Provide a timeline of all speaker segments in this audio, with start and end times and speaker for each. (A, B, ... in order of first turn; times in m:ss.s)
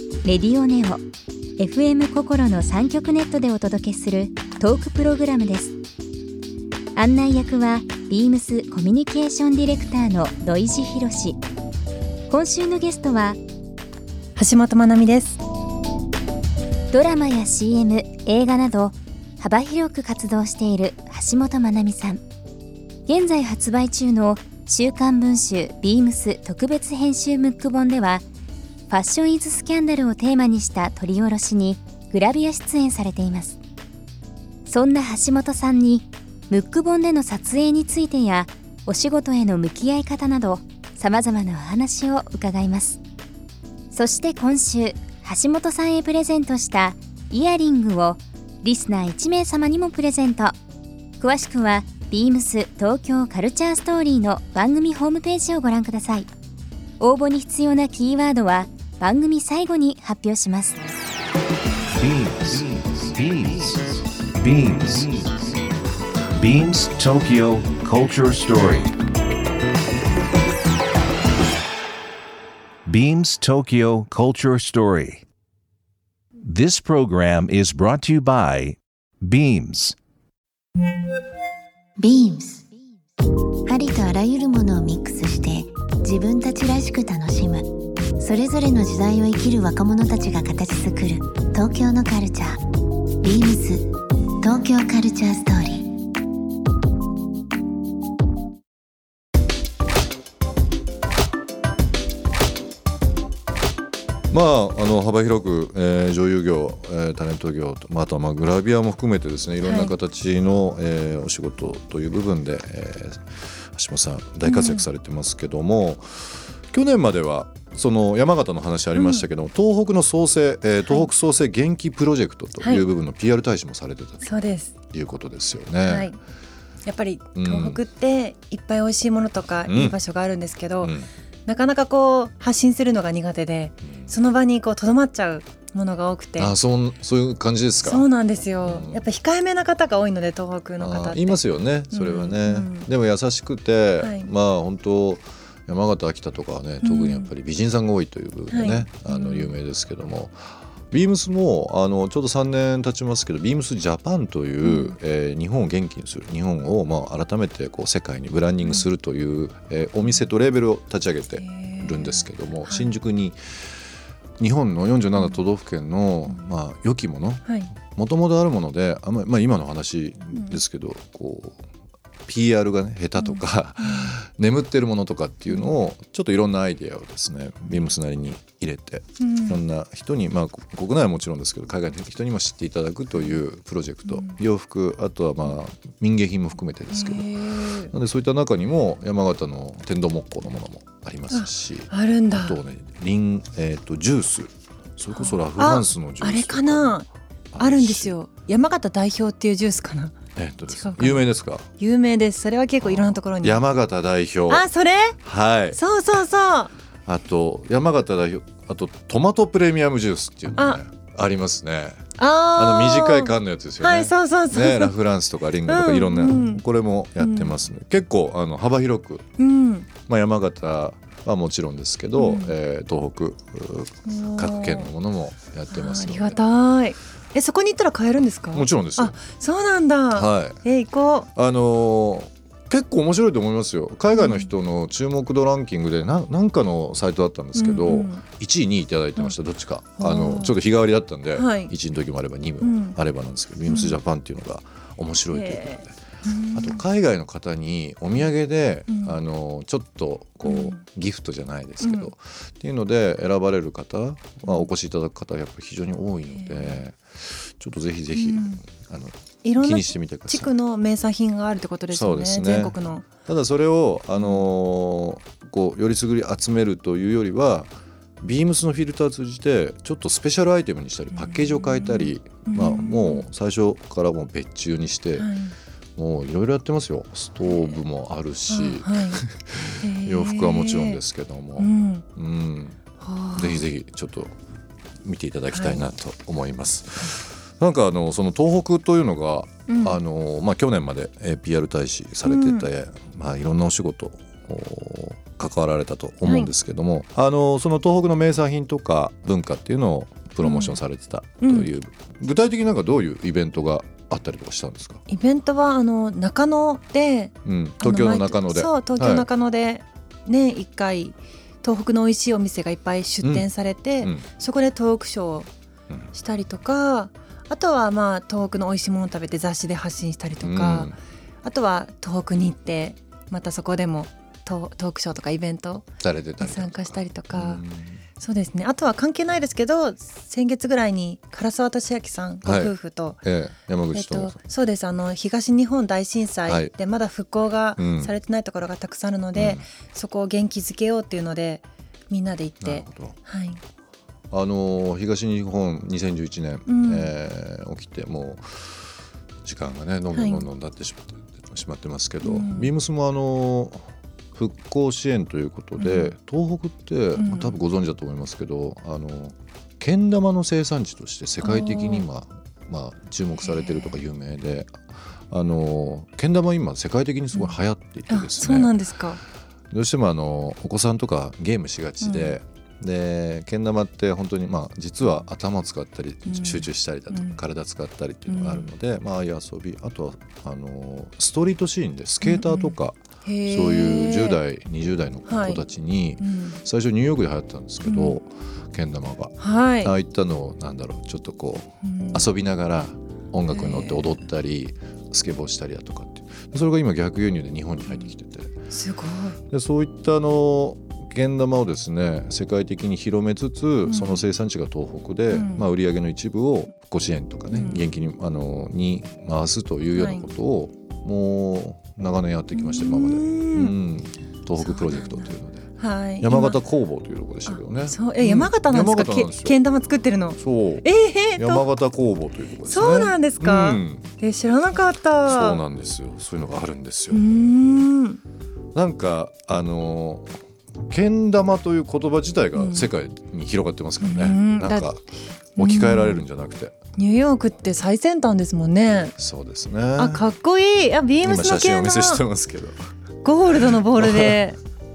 0:00.2-0:01.0 A
0:01.6-0:05.8 A
0:07.0-0:11.4 A
0:12.3-0:13.4 A
0:14.4-0:15.4 B
0:16.9-0:22.2 A
0:23.1-0:28.2 A
0:28.9-0:33.6 A
0:34.7-0:43.0 A
0:43.9-0:50.6 A
0:51.2-0:56.3 A
0:57.0-1:00.8 A
1:01.9-1:05.6 C
1:06.4-1:09.0 C
1:12.9-1:15.2 C
1:16.4-1:20.0 C
1:22.0-1:22.7 D
1:23.7-1:32.6 D
1:33.2-1:33.9 D
1:34.4-1:35.9 D
1:44.3-2:04.4 E
1:49.6-1:49.9 B
1:54.5-1:54.9 B
1:59.0-1:59.2 B
2:02.6-2:02.9 B
2:04.2-2:04.8 B
2:04.9-2:06.1 E
2:05.8-2:06.2 B
2:06.9-2:10.9 B
2:07.4-2:07.8 E
2:09.7-2:10.0 E
2:10.8-2:11.1 E
2:11.5-2:16.6 B
2:13.8-2:14.1 E
2:16.4-2:18.1 E
2:17.8-2:22.9 B
2:18.6-2:19.1 E
2:20.8-2:43.7 E
2:24.0-2:24.3 B
2:26.8-2:27.3 B
2:28.5-2:29.5 B
2:34.6-2:35.0 B
2:41.4-2:42.9 B
2:44.4-2:51.6 E
2:52.3-3:16.9 E
2:53.2-2:54.1 B
2:59.2-2:59.6 B
3:06.9-3:07.9 B
3:11.3-3:12.6 B
3:15.2-3:17.1 B
3:17.5-3:18.2 E
3:17.6-3:20.2 B
3:20.4-3:21.7 E
3:20.7-3:21.2 B
3:21.8-3:23.6 B
3:22.8-3:24.7 E
3:24.5-3:25.2 B
3:25.2-3:25.8 E
3:25.7-3:26.7 B
3:27.1-3:39.2 E
3:32.2-3:33.3 B
3:33.8-3:34.9 B
3:35.7-3:36.6 B
3:37.2-3:37.5 B
3:39.4-3:39.9 B
3:40.0-3:46.4 E
3:42.2-3:42.5 B
3:44.1-3:44.9 B
3:45.7-3:51.3 B
3:48.5-3:49.2 E
3:50.1-3:50.6 E
3:51.4-4:06.0 E
3:54.2-3:54.5 B
3:57.6-3:58.2 B
4:00.0-4:00.5 B
4:01.4-4:01.7 B
4:02.6-4:03.0 B
4:03.7-4:04.0 B
4:05.3-4:06.8 B
4:06.5-4:20.5 E
4:08.9-4:09.2 B
4:10.5-4:10.8 B
4:11.8-4:12.1 B
4:16.4-4:16.8 B
4:18.2-4:18.6 B
4:19.4-4:23.1 B
4:21.9-4:35.3 E
4:31.2-4:33.3 B
4:35.2-4:35.6 B
4:36.0-4:42.8 E
4:38.5-4:39.2 B
4:39.8-4:41.0 B
4:41.6-4:42.0 B
4:43.0-4:43.6 B
4:43.3-4:44.3 E
4:45.0-5:05.0 E
4:45.5-4:45.8 B
4:49.7-4:50.0 B
4:52.2-4:52.7 B
4:56.2-4:56.5 B
5:00.4-5:00.8 B
5:01.4-5:01.7 B
5:05.1-5:15.5 B
5:07.4-5:09.3 E
5:13.2-5:13.5 E
5:14.0-5:14.3 E
5:16.1-5:25.9 B
5:20.4-5:21.0 E
5:26.0-5:28.0 E
5:26.4-5:27.6 B
5:28.2-5:33.2 B
5:32.4-5:34.4 E
5:33.9-5:43.6 B
5:36.5-5:36.7 E
5:37.8-5:38.1 E
5:39.3-5:39.7 E
5:42.6-5:43.2 E
5:44.3-5:48.8 E
5:46.7-5:47.1 B
5:49.4-6:08.7 E
5:50.1-5:50.5 B
5:52.2-5:52.7 B
5:55.8-5:56.1 B
5:57.2-5:57.5 B
6:01.4-6:02.1 B
6:03.4-6:04.0 B
6:08.1-6:09.2 B
6:09.7-6:38.5 E
6:12.0-6:12.4 B
6:16.3-6:17.4 B
6:18.3-6:18.7 B
6:22.3-6:24.4 B
6:25.3-6:25.6 B
6:26.2-6:26.6 B
6:27.9-6:28.2 B
6:29.4-6:29.9 B
6:31.8-6:32.2 B
6:33.5-6:34.0 B
6:38.7-6:39.4 B
6:39.5-6:55.7 E
6:43.9-6:44.2 B
6:45.3-6:45.7 B
6:47.5-6:47.8 B
6:50.0-6:50.3 B
6:52.5-6:53.8 B
6:54.6-6:55.3 B
6:55.8-6:56.6 B
6:56.2-6:59.6 E
6:57.5-7:01.7 B
7:00.4-7:04.1 E
7:02.7-7:05.6 B
7:05.3-7:07.4 E
7:07.1-7:08.2 B
7:08.8-7:15.0 E
7:12.6-7:12.9 B
7:14.0-7:14.9 B
7:15.6-7:16.2 B
7:15.6-7:16.8 E
7:17.0-7:19.1 B
7:19.2-7:20.3 E
7:20.0-7:22.2 B
7:21.2-7:22.8 E
7:23.2-7:24.6 B
7:23.5-7:24.4 E